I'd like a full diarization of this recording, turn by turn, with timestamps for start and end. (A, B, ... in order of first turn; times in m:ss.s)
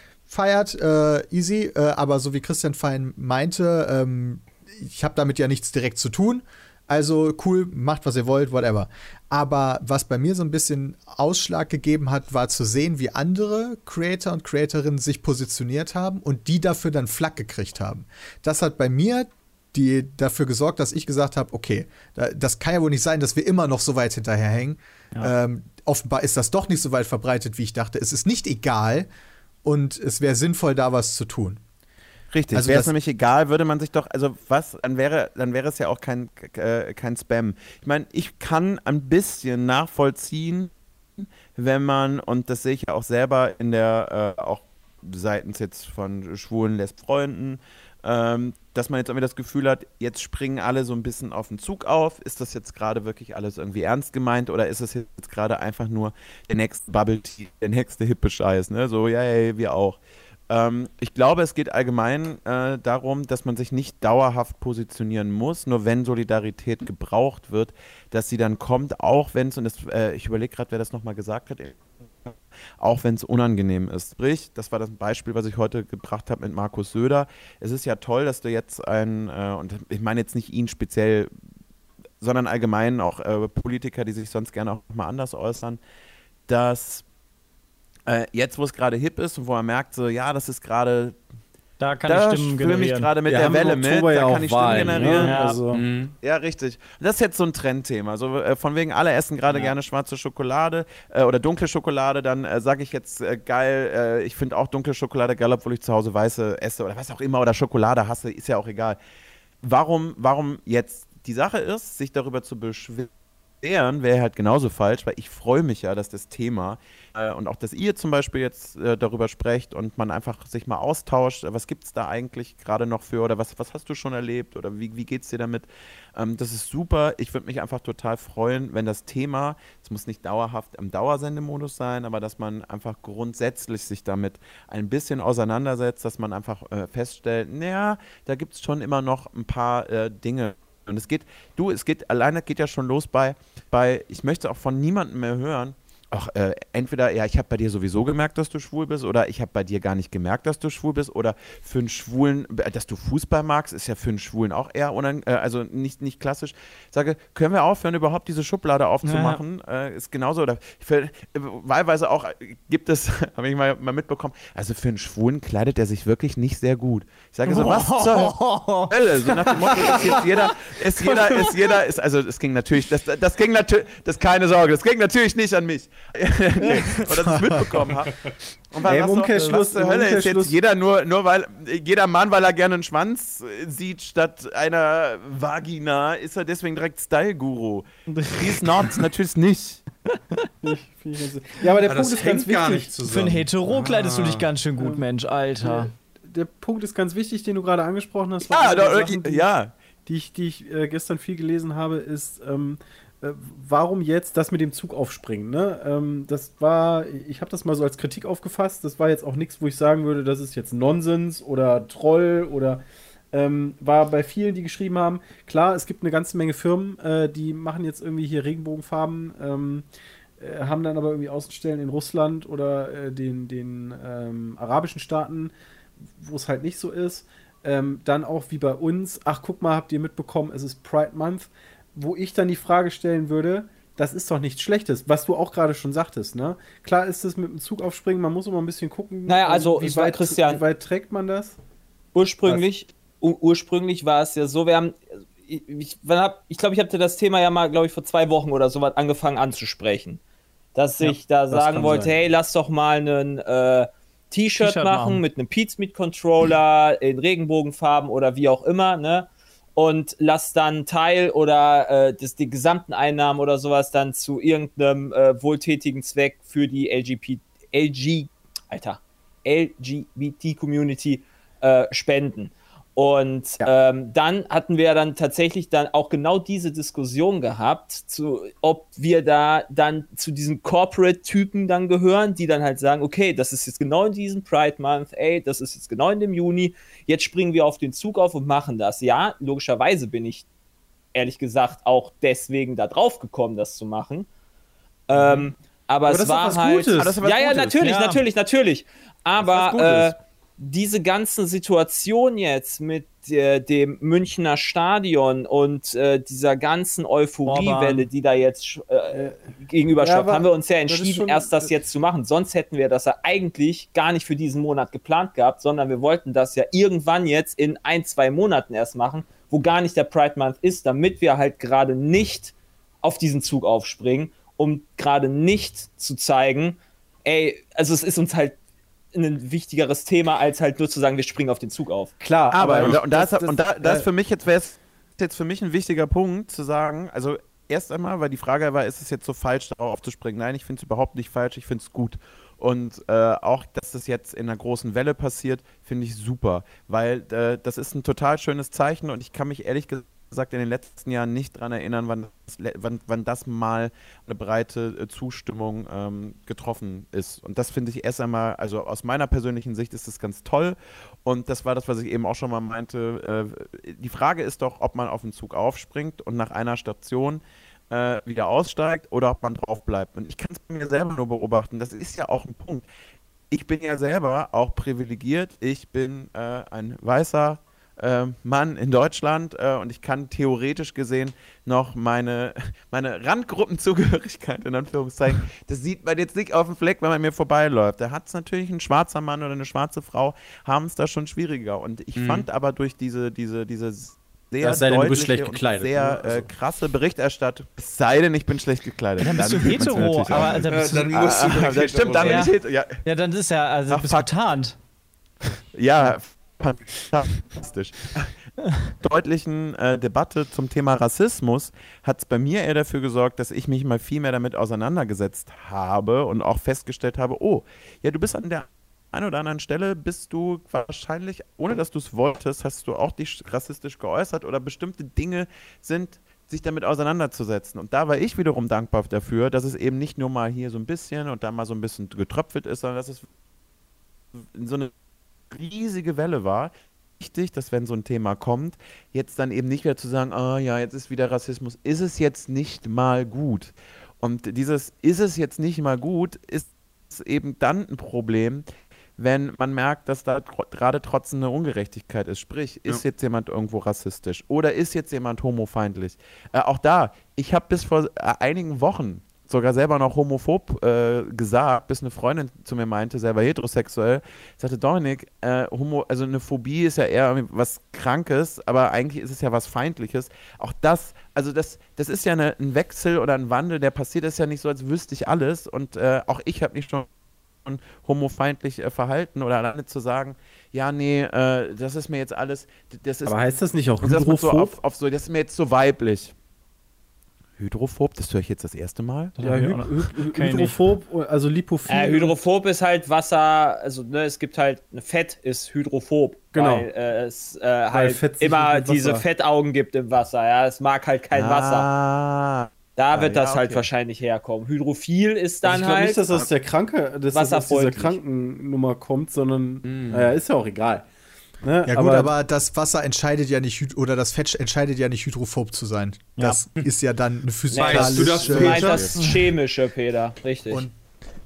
0:00.3-0:29.1 A
0:29.6-0:31.6 A
0:32.3-1:21.3 B
0:32.5-0:32.9 A
1:22.2-1:25.8 B
1:26.5-1:27.0 B
1:28.1-1:31.2 B
1:31.8-1:33.1 C
1:32.1-1:35.4 B
1:33.2-1:35.8 D
1:35.2-1:35.6 C
1:35.7-1:36.1 E
1:36.2-1:49.0 B
1:49.6-1:53.1 B
1:53.6-3:09.8 B
2:39.0-2:39.4 C
2:47.4-2:48.9 C
2:49.6-2:50.5 D
2:51.0-2:51.6 D
2:57.2-2:57.7 A
2:58.8-3:00.6 D
3:08.1-3:09.0 C
3:10.6-3:13.0 D
3:11.8-3:14.5 E
3:13.0-3:15.9 C
3:14.8-3:15.0 D
3:15.6-3:19.5 D
3:18.4-3:19.7 B
3:20.0-3:39.8 D
3:40.4-4:01.6 D
3:59.3-4:00.6 F
4:02.1-4:10.2 F
4:10.7-4:50.4 F
4:11.5-4:12.2 D
4:14.5-4:15.2 C
4:51.1-4:54.3 F
4:55.1-5:28.6 F
4:55.1-4:55.4 D
4:56.0-4:57.2 D
4:57.0-4:57.8 B
4:57.8-4:58.2 C
4:59.4-5:00.0 B
4:59.6-5:00.1 D
5:07.4-5:08.1 C
5:09.1-5:11.8 D
5:29.1-5:32.1 F
5:32.2-5:34.0 D
5:32.5-6:12.8 B
6:13.5-6:43.0 B
6:32.1-6:32.4 E
6:34.6-6:36.5 D
6:39.2-6:41.4 C
6:40.0-6:42.5 E
6:42.1-6:44.8 C
6:43.9-6:44.3 B
6:45.7-6:48.4 B
6:49.0-7:13.2 B
7:14.3-7:14.9 B
7:15.5-7:28.6 B
7:29.2-7:57.1 B
7:57.6-8:03.4 B
8:03.2-8:04.7 D
8:04.0-8:06.3 B
8:07.6-8:09.4 B
8:09.4-8:10.8 C
8:09.4-8:12.3 D
8:11.9-8:21.9 F
8:16.5-8:16.9 D
8:17.9-8:19.2 D
8:21.3-8:23.9 B
8:23.0-8:26.2 F
8:25.6-8:31.0 D
8:27.3-8:28.2 F
8:29.8-8:30.3 E
8:31.6-8:32.3 D
8:31.8-8:39.2 A
8:37.7-8:40.8 F
8:37.7-8:39.3 E